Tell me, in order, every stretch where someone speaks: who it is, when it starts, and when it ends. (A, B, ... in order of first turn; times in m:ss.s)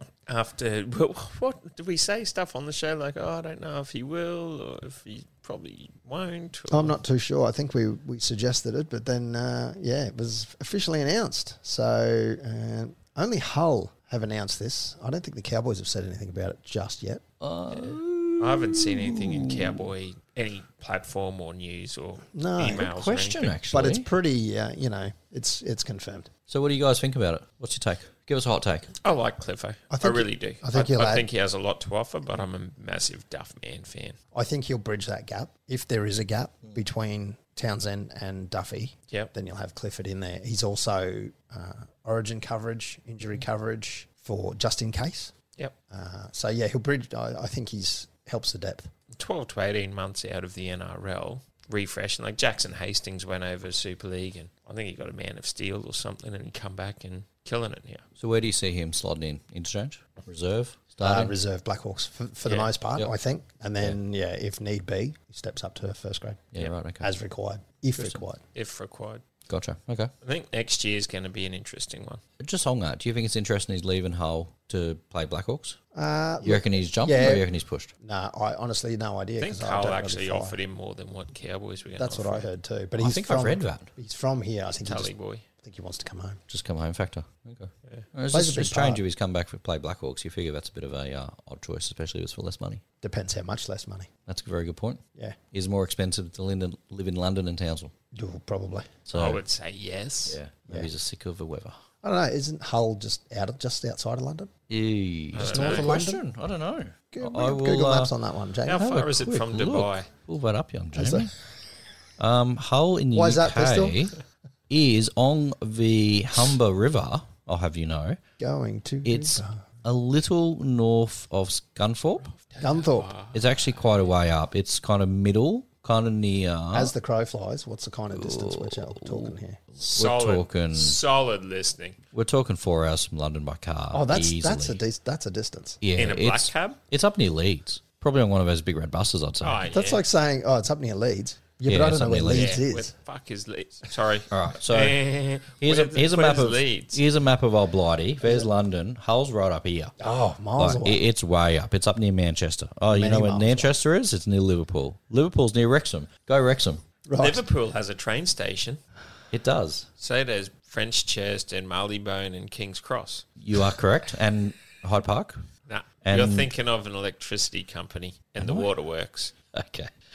0:00.3-0:07.0 A
0:06.7-0:17.2 B
0:17.4-0:19.9 C
0:17.7-0:23.6 A
0:22.3-0:22.9 B
0:22.8-0:24.1 C
0:23.7-0:26.3 B
0:26.5-0:28.9 C
0:29.0-0:34.2 A
0:29.9-0:31.3 B
0:34.3-0:45.3 B
0:45.9-0:48.9 B
0:49.1-0:58.0 A
0:58.2-1:01.3 C
1:01.0-1:08.4 B
1:02.4-1:02.7 A
1:06.5-1:07.1 C
1:08.6-1:09.2 A
1:09.5-1:10.1 C
1:10.2-1:12.2 A
1:12.4-1:15.8 C
1:15.9-1:17.4 B
1:16.4-1:17.9 C
1:18.0-1:20.6 B
1:19.4-1:22.5 A
1:22.0-1:26.4 B
1:23.0-1:23.9 C
1:24.8-1:25.4 A
1:26.5-1:32.8 C
1:28.3-1:29.0 B
1:33.0-1:34.1 B
1:34.3-1:35.0 C
1:35.5-1:37.9 C
1:38.1-1:39.0 B
1:39.1-1:39.4 C
1:39.1-1:40.4 A
1:40.3-1:41.8 C
1:42.0-1:44.5 B
1:44.7-1:48.1 C
1:45.3-1:45.9 A
1:45.4-1:46.2 B
1:47.1-1:48.9 B
1:48.7-1:50.1 A
1:48.7-1:51.3 C
1:51.0-1:51.3 B
1:52.2-1:54.2 C
1:53.1-1:54.0 B
1:54.7-1:58.2 C
1:58.4-1:59.6 B
1:59.1-2:02.3 C
2:02.3-2:03.4 A
2:02.6-2:03.1 B
2:03.3-2:06.9 C
2:06.7-2:09.6 B
2:08.1-2:11.0 C
2:09.8-2:12.0 A
2:12.1-2:14.8 C
2:13.9-2:15.8 B
2:15.8-2:19.6 C
2:16.0-2:16.8 A
2:19.4-2:20.0 A
2:19.7-2:22.9 B
2:21.7-2:22.6 C
2:22.3-2:27.0 A
2:24.3-2:29.9 C
2:28.2-2:28.5 B
2:30.0-2:31.0 B
2:30.6-2:36.8 C
2:32.9-2:33.7 B
2:37.1-2:37.4 B
2:37.2-2:38.8 A
2:39.3-2:39.9 C
2:40.0-2:43.3 A
2:43.4-2:45.5 C
2:45.7-2:49.3 A
2:46.0-2:46.5 C
2:48.4-2:48.7 C
2:49.5-2:49.9 C